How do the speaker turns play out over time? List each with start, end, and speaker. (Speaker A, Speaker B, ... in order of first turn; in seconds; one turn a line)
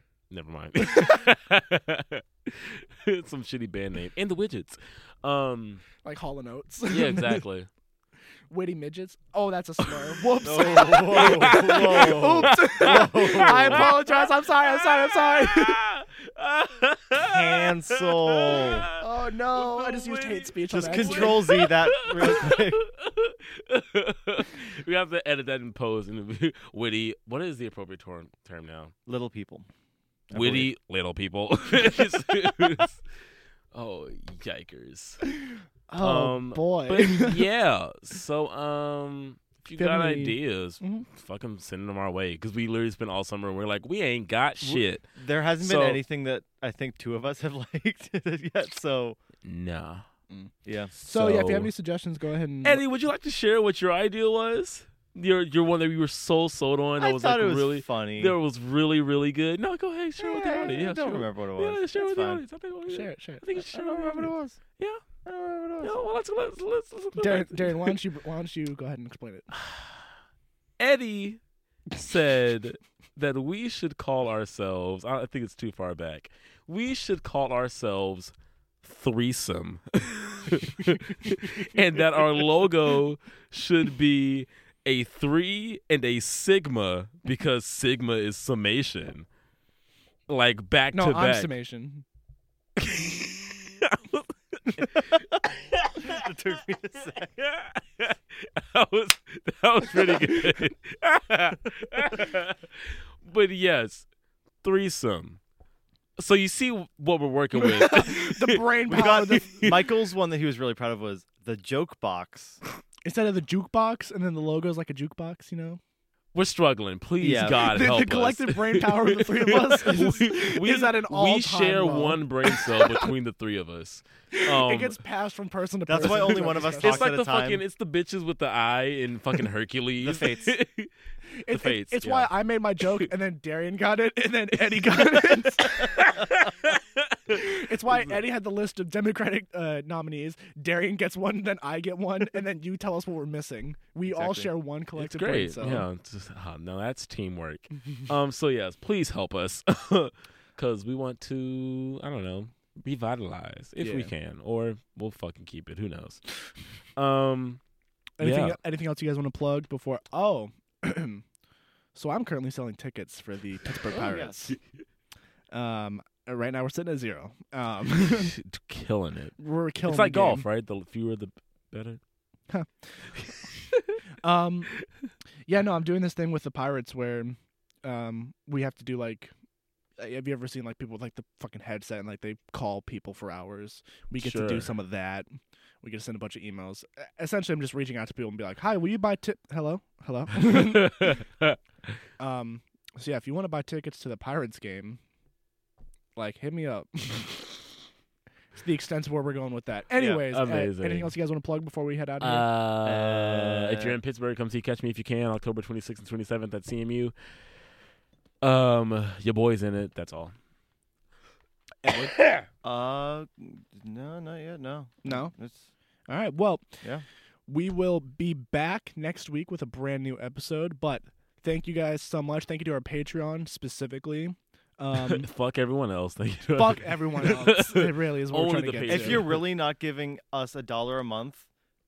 Speaker A: 0.3-5.8
Speaker B: 6.0-7.4
Speaker A: 6.9-7.7
Speaker B: 8.5-15.8
Speaker C: 10.4-13.9
Speaker A: 10.7-28.9
Speaker C: 17.2-18.9
Speaker B: 19.0-21.5
Speaker C: 20.7-22.8
Speaker C: 29.1-29.7
Speaker C: 30.3-30.7
Speaker A: 30.3-33.0
Speaker A: 33.7-35.2
Speaker B: 35.5-37.4
Speaker A: 36.0-45.1
Speaker B: 39.8-41.0
Speaker C: 44.6-49.2
Speaker A: 45.6-46.0
Speaker A: 49.4-50.0
Speaker B: 50.3-52.8
Speaker C: 50.6-50.9
Speaker A: 51.1-51.7
Speaker A: 52.6-65.0
Speaker C: 57.0-58.4
Speaker B: 60.2-60.7
Speaker C: 60.3-62.4
Speaker B: 62.9-63.7
Speaker C: 63.6-64.6
Speaker C: 65.2-66.0
Speaker A: 65.8-68.0
Speaker B: 67.2-69.5
Speaker A: 70.8-71.4
Speaker A: 71.9-89.3
Speaker A: 90.3-91.5
Speaker B: 90.9-92.0
Speaker A: 92.8-96.2
Speaker C: 96.0-97.3
Speaker A: 97.3-104.0
Speaker A: 104.6-105.4
Speaker A: 106.2-109.8
Speaker B: 107.5-109.6
Speaker C: 108.9-112.6
Speaker B: 113.0-115.8
Speaker A: 116.3-125.0
Speaker C: 117.2-117.7
Speaker B: 117.3-123.1
Speaker B: 124.3-127.0
Speaker C: 125.9-127.6
Speaker A: 126.0-130.9
Speaker C: 130.0-130.5
Speaker B: 131.4-135.8
Speaker A: 131.5-133.1
Speaker A: 135.7-137.3
Speaker B: 137.3-145.9
Speaker C: 144.1-144.5
Speaker A: 144.9-156.4
Speaker B: 153.8-154.1
Speaker A: 156.9-157.6
Speaker B: 158.2-161.2
Speaker A: 158.2-158.6
Speaker B: 161.9-164.6
Speaker C: 164.0-164.4
Speaker B: 165.5-168.3
Speaker A: 168.1-172.0
Speaker B: 169.4-170.4
Speaker B: 172.5-173.3
Speaker B: 174.2-174.7
Speaker B: 175.5-179.3
Speaker B: 180.0-185.2
Speaker A: 184.2-184.7
Speaker B: 185.8-191.2
Speaker A: 190.4-191.6
Speaker B: 192.2-195.0
Speaker B: 196.2-197.7
Speaker B: 198.5-202.5
Speaker A: 200.0-201.1
Speaker A: 202.2-207.1
Speaker C: 202.8-204.0
Speaker A: 208.4-210.3
Speaker B: 211.8-212.1
Speaker A: 212.2-212.4
Speaker C: 212.6-215.7
Speaker B: 215.0-215.3
Speaker B: 216.1-216.8
Speaker B: 217.5-225.3
Speaker A: 224.9-229.4
Speaker B: 226.5-229.3
Speaker C: 228.9-231.4